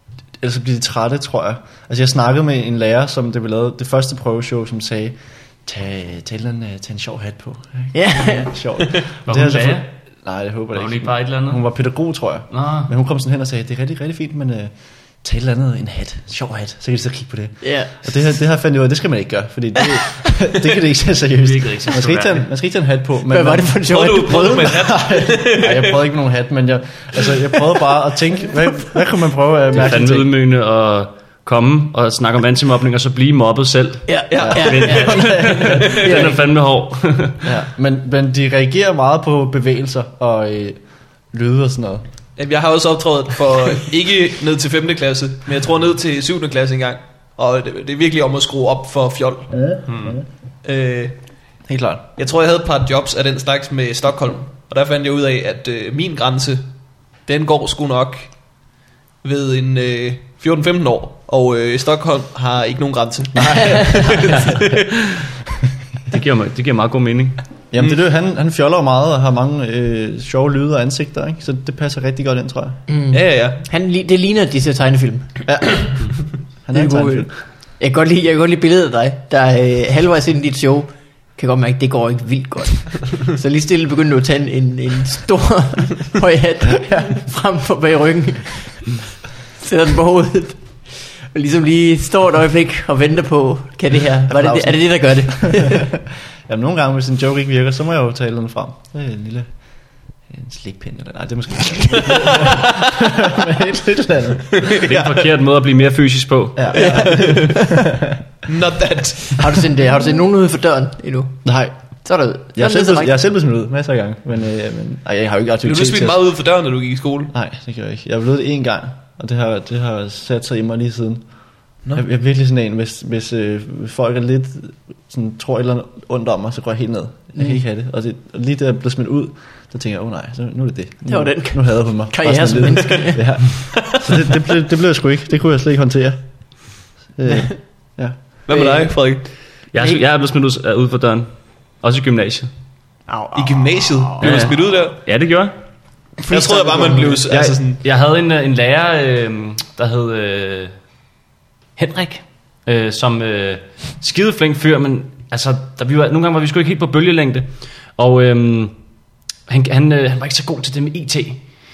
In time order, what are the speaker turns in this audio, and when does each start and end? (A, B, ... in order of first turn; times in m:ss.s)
0:00.4-0:23.7 A
0:07.9-0:08.9 B
0:09.3-0:09.9 C
0:10.7-0:11.6 C
0:12.5-0:12.9 C
0:17.6-0:17.9 B
0:21.4-0:22.5 C
0:23.3-0:24.7 B
0:23.9-0:26.0 D
0:24.6-0:30.3 A
0:29.7-0:37.5 C
0:34.1-0:36.4 B
0:34.3-0:36.3 D
0:34.4-0:35.7 A
0:37.4-0:40.8 A
0:41.3-0:42.0 A
0:42.4-0:49.8 D
0:49.5-0:50.2 A
0:49.9-0:50.2 C
0:50.6-0:51.2 D
0:51.7-0:52.1 A
0:52.2-0:58.3 D
0:59.2-1:04.9 D
1:04.1-1:05.2 C
1:06.1-1:07.4 C
1:07.7-1:12.8 A
1:12.9-1:15.3 B
1:13.1-1:13.6 D
1:15.5-1:16.0 A
1:16.6-1:17.3 A
1:16.7-1:29.0 B
1:29.6-1:35.9 B
1:34.3-1:35.6 A
1:36.5-1:39.5 A
1:40.3-1:44.6 A
1:42.0-1:42.7 D
1:44.5-1:45.3 D
1:44.8-1:46.7 C
1:46.6-1:48.2 A
1:46.7-1:47.7 D
1:46.7-1:47.6 B
1:48.4-1:49.6 D
1:49.4-1:51.4 B
1:51.4-1:51.7 A
1:52.0-1:53.2 B
1:52.6-1:56.2 A
1:55.6-1:57.3 D
1:57.3-2:01.3 A
2:01.9-2:16.2 A
2:11.1-2:13.2 B
2:17.2-2:18.2 A
2:17.3-2:17.5 B
2:18.5-2:19.2 D
2:18.5-2:18.9 B
2:19.7-2:21.3 C
2:21.8-2:22.5 C
2:23.1-2:24.4 B
2:23.4-2:25.0 D
2:24.2-2:25.5 C
2:26.3-2:27.8 D
2:26.3-2:27.6 A
2:26.3-2:27.2 B
2:27.8-2:30.7 C
2:31.8-2:38.7 C
2:39.5-2:41.4 C